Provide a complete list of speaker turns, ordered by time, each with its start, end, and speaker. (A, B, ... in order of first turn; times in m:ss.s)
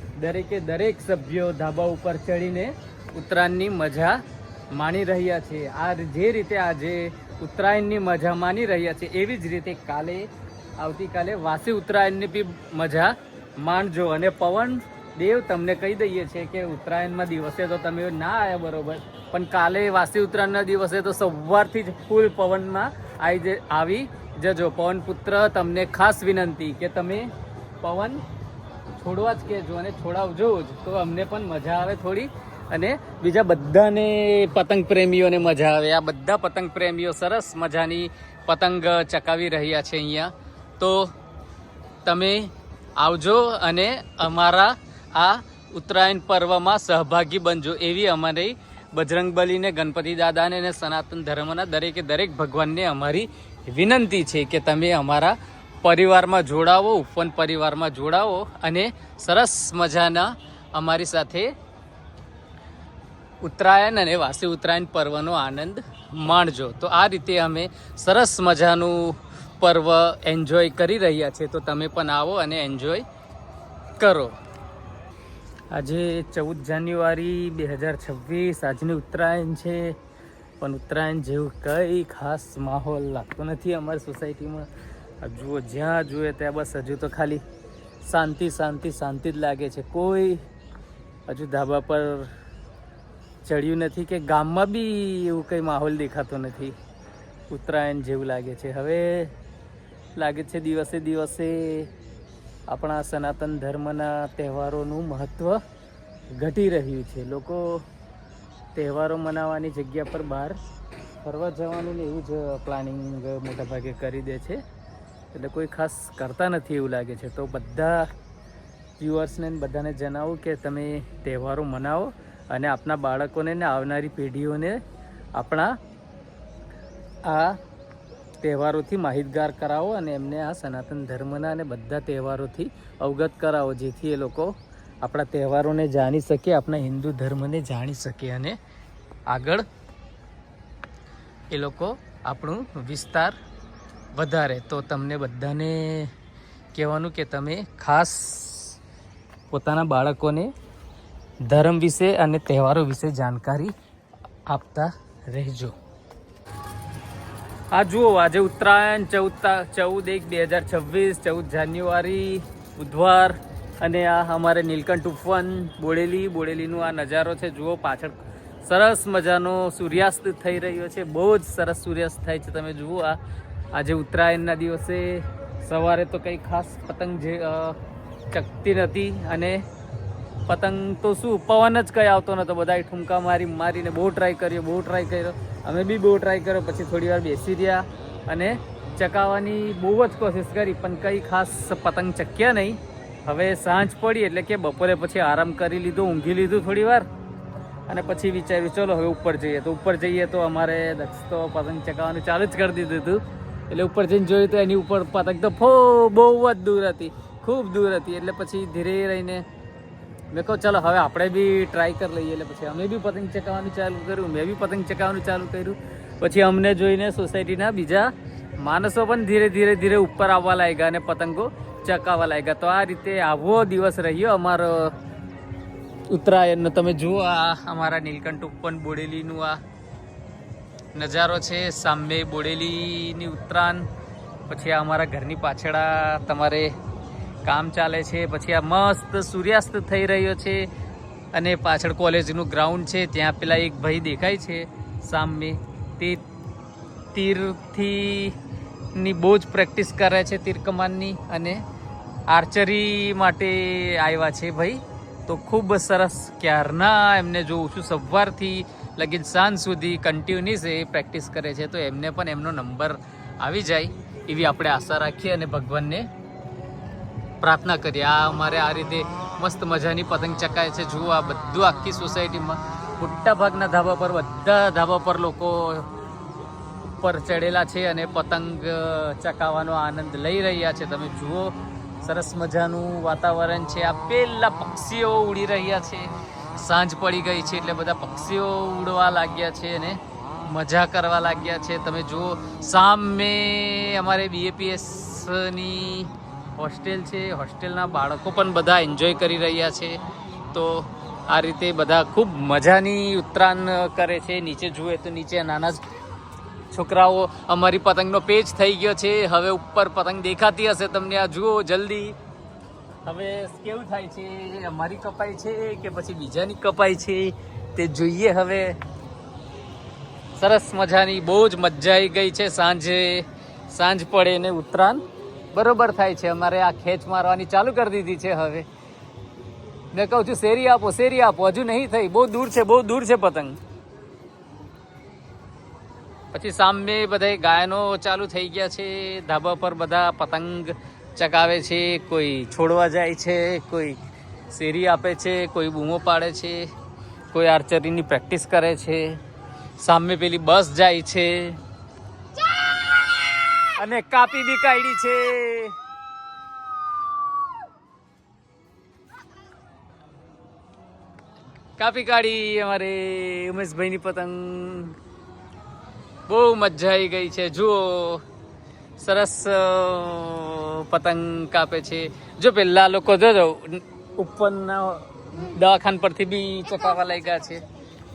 0:00.2-0:04.2 A
0:04.7-0:28.2 A
0:29.0-0:41.1 A
0:42.0-1:01.5 A
1:03.4-1:13.0 A
1:14.0-1:14.4 A
1:15.7-1:20.0 A
1:20.6-1:24.7 A
1:25.2-1:27.4 A
1:28.0-1:30.4 A
1:31.3-1:32.3 A
1:33.4-1:36.8 A
1:37.5-1:39.3 A
1:40.2-1:41.9 A
1:42.7-1:45.6 A
1:46.3-1:47.8 A
1:48.8-1:50.7 A
1:51.2-1:54.6 A
1:55.3-1:58.1 A
1:59.0-2:04.8 A
2:05.4-2:05.8 A
2:07.2-2:07.6 A
2:08.4-2:18.6 A
2:19.3-2:19.6 A
2:21.5-2:23.4 A
2:24.1-2:26.1 A
2:26.7-2:28.8 A
2:29.5-2:30.5 A
2:31.5-2:33.7 A
2:34.5-2:35.8 A
2:37.7-2:53.2 A
2:53.7-2:57.8 A
2:58.3-2:59.6 A
3:00.5-3:17.1 A
3:17.9-3:29.4 A
3:30.3-3:44.9 A
3:46.1-3:49.6 A
3:51.0-3:53.9 A
3:54.5-3:56.7 A
3:57.4-4:00.7 A
4:01.3-4:06.2 A
4:07.1-4:08.4 A
4:09.0-4:11.6 A
4:12.3-4:26.1 A
4:27.4-4:35.9 A
4:37.0-5:00.0 A
5:00.5-5:05.8 A
5:06.7-5:12.2 A
5:13.1-5:18.8 A
5:20.4-5:25.0 A
5:25.5-5:28.7 A
5:29.9-5:33.6 A
5:36.3-5:44.0 A
5:44.5-5:46.7 A
5:47.3-5:49.2 A
5:49.8-5:51.6 A
5:53.7-5:55.8 A
6:01.8-6:05.0 A
6:06.3-6:08.2 A
6:09.0-6:17.6 A